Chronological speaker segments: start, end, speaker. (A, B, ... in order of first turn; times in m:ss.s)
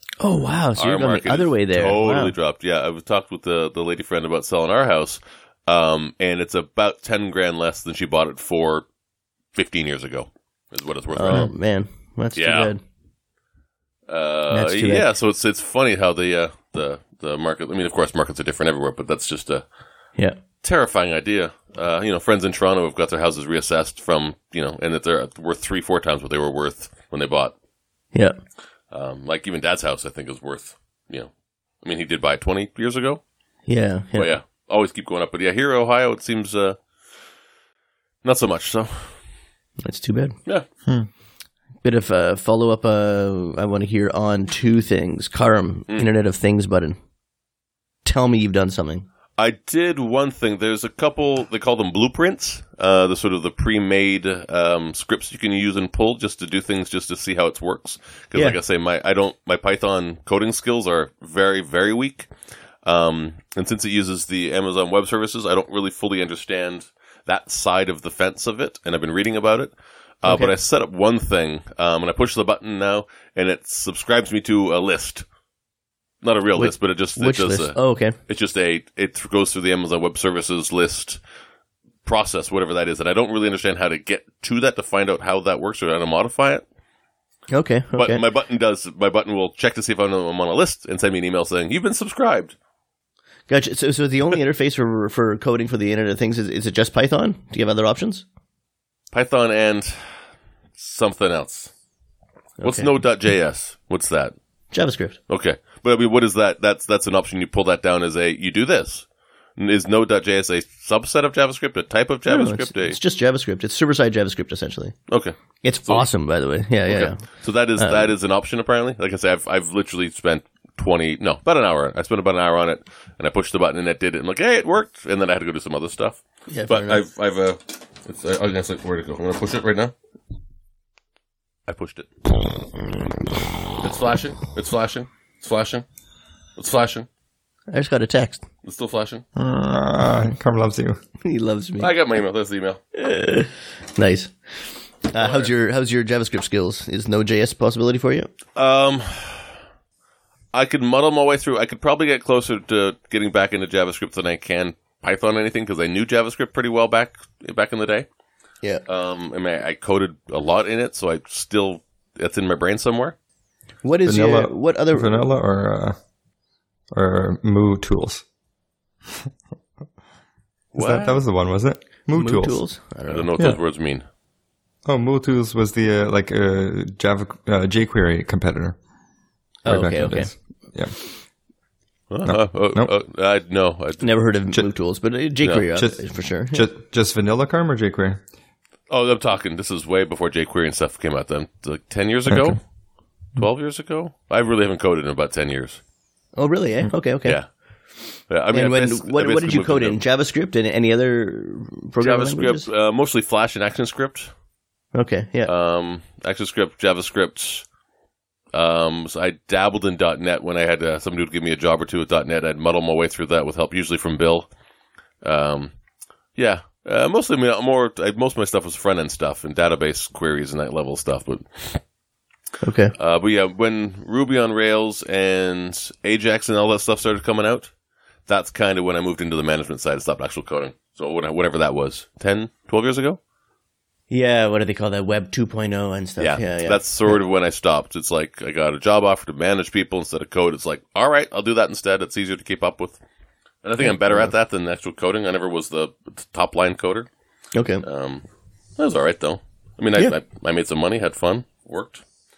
0:00.2-0:02.3 A
0:00.8-0:08.9 B
0:09.6-0:11.5 B
0:11.1-0:12.8 A
0:12.4-0:12.7 B
0:14.1-0:19.6 B
0:14.5-0:15.1 A
0:20.6-0:27.5 B
0:28.9-0:31.3 B
0:31.8-0:33.2 B
0:33.7-0:34.3 A
0:34.2-0:36.8 B
0:38.2-0:39.1 B
0:39.8-0:40.4 A
0:41.8-0:47.0 A
0:48.0-0:49.1 A
0:49.4-1:02.3 B
1:02.8-1:15.2 B
1:10.3-1:10.5 A
1:16.2-1:21.2 B
1:16.6-1:18.2 A
1:22.0-1:26.6 B
1:27.5-1:28.2 A
1:28.0-1:32.6 B
1:33.5-1:38.2 A
1:39.1-1:40.0 B
1:40.8-1:41.7 B
1:42.6-1:42.9 A
1:42.6-1:44.4 B
1:44.7-1:45.2 A
1:45.3-1:49.1 B
1:49.6-1:53.0 B
1:52.3-1:55.0 A
1:55.1-1:55.4 B
1:55.6-1:57.2 A
1:56.9-2:09.9 B
1:57.8-1:58.1 A
2:06.5-2:07.0 A
2:11.7-2:12.1 B
2:13.8-2:15.8 B
2:16.6-2:17.1 B
2:17.7-2:18.4 A
2:18.6-2:19.2 B
2:19.4-2:21.0 C
2:21.2-2:21.9 A
2:21.8-2:22.8 B
2:23.0-2:24.3 A
2:25.1-2:28.3 A
2:25.2-2:25.5 B
2:28.6-2:29.5 B
2:30.5-2:38.1 B
2:38.9-2:43.2 B
2:43.8-2:45.2 A
2:44.1-2:46.0 C
2:46.9-2:48.2 C
2:50.7-2:51.2 B
2:50.8-2:52.6 C
2:52.1-2:53.3 A
2:53.1-2:54.0 B
2:54.9-2:58.8 C
2:59.6-3:00.3 A
2:59.7-3:01.0 C
3:02.1-3:04.1 B
3:02.2-3:02.9 C
3:04.0-3:06.7 A
3:05.8-3:06.0 C
3:06.5-3:08.2 C
3:08.9-3:12.6 B
3:12.3-3:12.6 C
3:13.4-3:15.8 B
3:16.4-3:17.4 A
3:18.3-3:20.0 B
3:18.5-3:22.7 A
3:22.0-3:24.3 B
3:24.9-3:25.5 A
3:25.5-3:27.6 B
3:28.5-3:34.5 B
3:35.2-3:35.7 B
3:36.4-3:41.8 B
3:42.6-3:42.9 A
3:43.0-3:47.7 B
3:48.3-3:53.2 B
3:54.1-3:57.1 A
3:56.2-4:03.0 B
4:03.6-4:07.1 B
4:03.8-4:04.3 A
4:07.6-4:07.8 A
4:07.8-4:08.2 B
4:08.8-4:12.0 B